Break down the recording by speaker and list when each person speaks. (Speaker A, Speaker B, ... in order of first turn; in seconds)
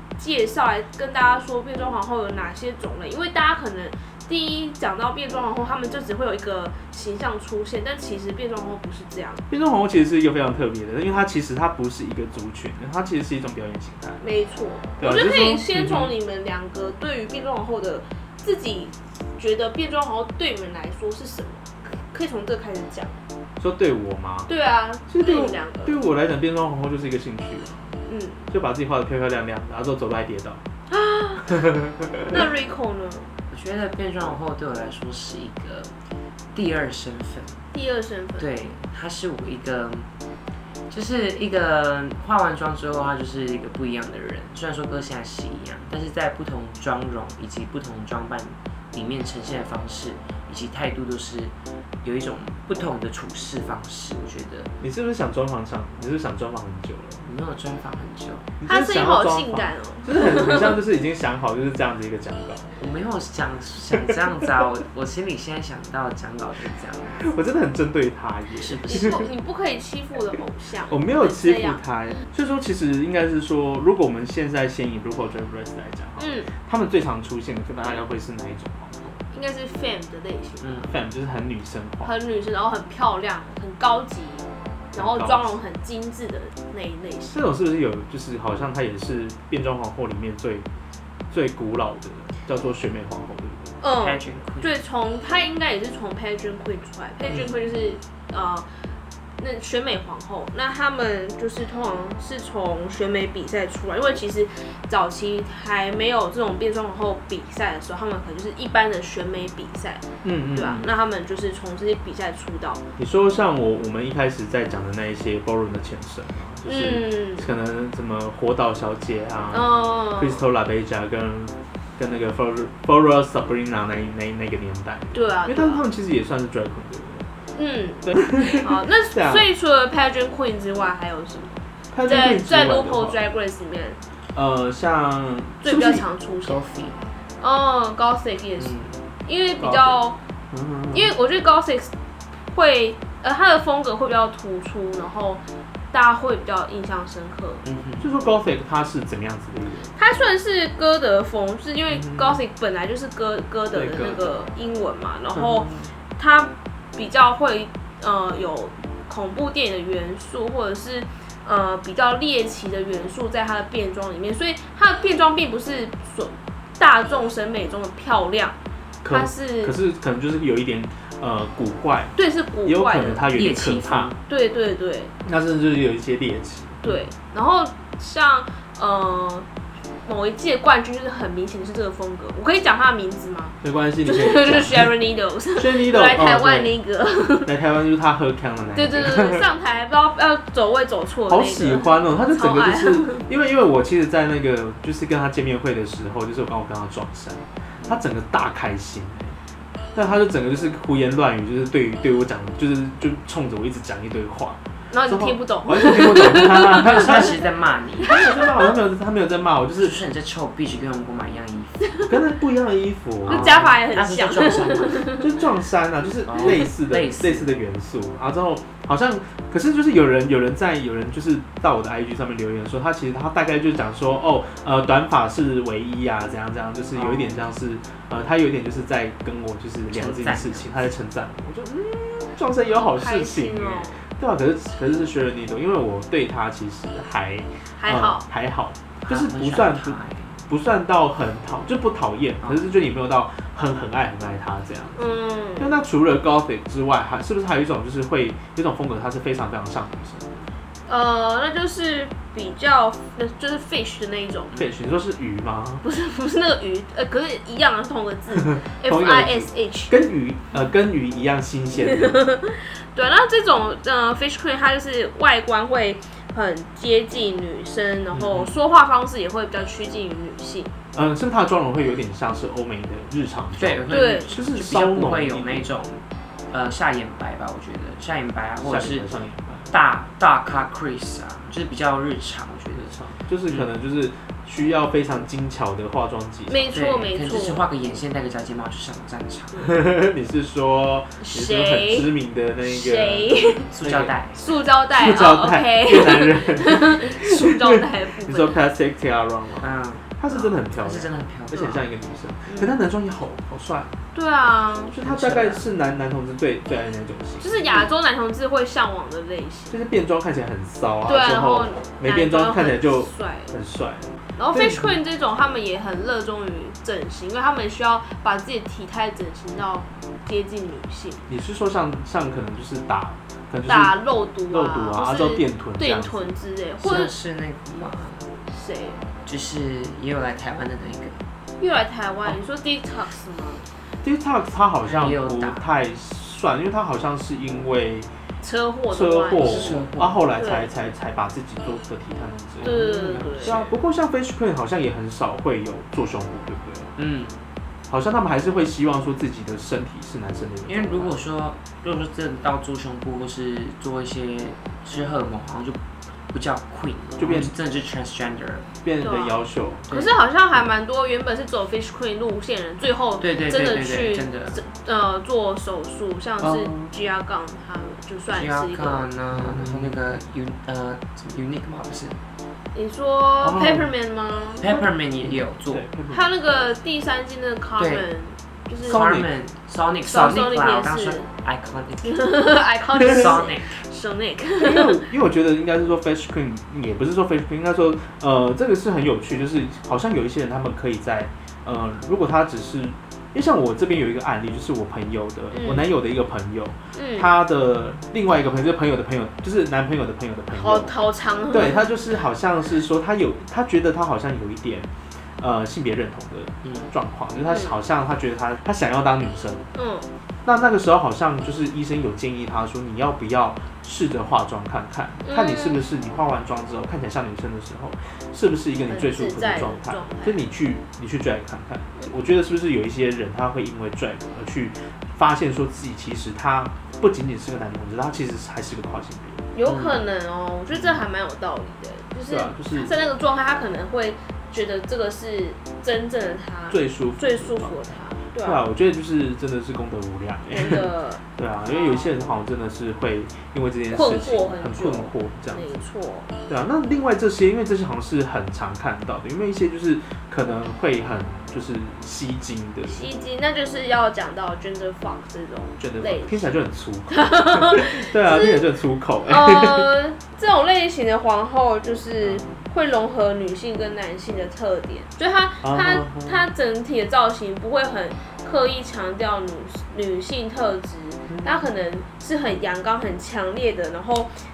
Speaker A: 0.2-9.4, 14.2-23.2, 24.5-26.0, 28.1-28.5, 30.9-31.6, 32.3-33.3, 37.7-38.5, 58.7-60.8, 68.8-71.8, 76.2-76.5, 79.3-80.9, 82.0-87.4, 93.8-98.7, 99.4-112.8, 116.7-117.5, 119.5-120.5, 125.1-125.8, 127.5-134.0, 135.6-136.6, 137.4-140.2, 140.9-141.9, 142.5-147.6, 149.9-168.6, 169.1-169.7, 172.2-173.2, 174.3-175.1, 176.8-179.5, 180.1-187.5, 188.7-193.2, 204.9-207.3, 208.0-208.7, 213.2-215.3, 232.7-234.0, 237.8-238.2, 244.9-245.8, 250.9-254.5, 255.8-259.9, 261.8-270.7, 273.9-274.3, 286.5-287.6, 291.2-292.1, 292.6-293.7, 294.4-298.6, 302.5-302.7, 304.1-304.9, 307.4-309.8, 311.1-313.5, 314.4-321.3, 323.7-327.1, 328.4-329.0, 331.6-333.7, 338.4-339.8, 340.4-340.7, 342.6-343.6, 359.0-369.1, 372.7-374.7, 376.1-379.0, 380.1-381.3, 382.0-385.0, 395.5-395.9, 396.9-397.3, 400.5-401.9, 407.4-407.8, 409.7-410.1, 415.2-415.9, 418.9-420.5, 429.5-438.6, 440.5-442.2, 443.9-446.4, 452.9-456.5, 457.1-458.6, 459.3-474.3
Speaker B: 9.5-14.2, 15.0-16.1, 23.6-24.5, 25.1-27.9, 28.5-30.6, 31.4-32.4, 54.8-57.3, 58.6-62.7, 67.2-69.3, 70.9-79.2, 80.9-82.1, 84.9-85.6, 87.3-90.7, 91.3-93.8, 110.2-110.9, 113.0-127.3, 128.0-129.5, 131.9-133.2, 134.3-136.1, 139.6-141.1, 148.0-149.9, 151.9-152.4, 153.7-154.3, 155.3-155.9, 169.0-174.2, 175.2-176.8, 183.6-184.9, 185.6-186.7, 187.4-189.5, 191.3-199.4, 199.9-207.3, 208.0-210.0, 212.0-213.6, 215.1-245.1, 245.6-250.5, 254.5-255.8, 258.3-262.2, 268.1-268.5, 270.9-275.7, 278.6-279.7, 282.8-286.7, 289.6-294.1, 294.9-304.0, 304.9-307.8, 309.7-315.0, 321.3-323.9, 324.5-326.3, 334.0-338.1, 338.9-346.9, 347.9-351.2, 357.2-357.5, 358.8-359.9, 366.4-366.9, 369.3-370.0, 373.4-373.9, 375.2-376.3, 378.8-379.3, 382.9-383.4, 384.6-400.9, 401.5-409.6, 410.4-429.4, 430.7-431.0, 432.3-432.9, 436.7-445.7, 446.5-453.1, 455.8-459.9, 462.2-462.6, 465.6-466.5, 471.3-471.7
Speaker C: 33.5-35.9, 36.5-37.7, 38.4-40.1, 40.9-54.7, 57.2-58.5, 62.8-67.3, 68.6-69.2, 80.6-80.9, 94.0-94.8, 136.4-137.1, 138.6-139.1, 147.6-148.1, 173.3-174.2, 206.7-208.2, 209.8-212.0, 213.2-215.1, 216.2-217.5, 226.9-227.5, 229.9-230.9, 239.0-240.4, 242.4-242.7, 273.6-279.1, 279.7-283.7, 286.7-289.7, 293.7-294.4, 299.6-301.8, 305.0-305.7, 326.8-328.4, 329.2-331.2, 334.8-335.7, 339.4-340.2, 342.6-343.8, 347.0-347.4, 350.6-355.8, 356.3-358.7, 359.9-360.2, 363.2-364.6, 368.3-372.2, 374.6-375.8, 377.8-378.1, 378.8-382.3, 383.0-383.8, 406.6-406.9, 429.6-430.0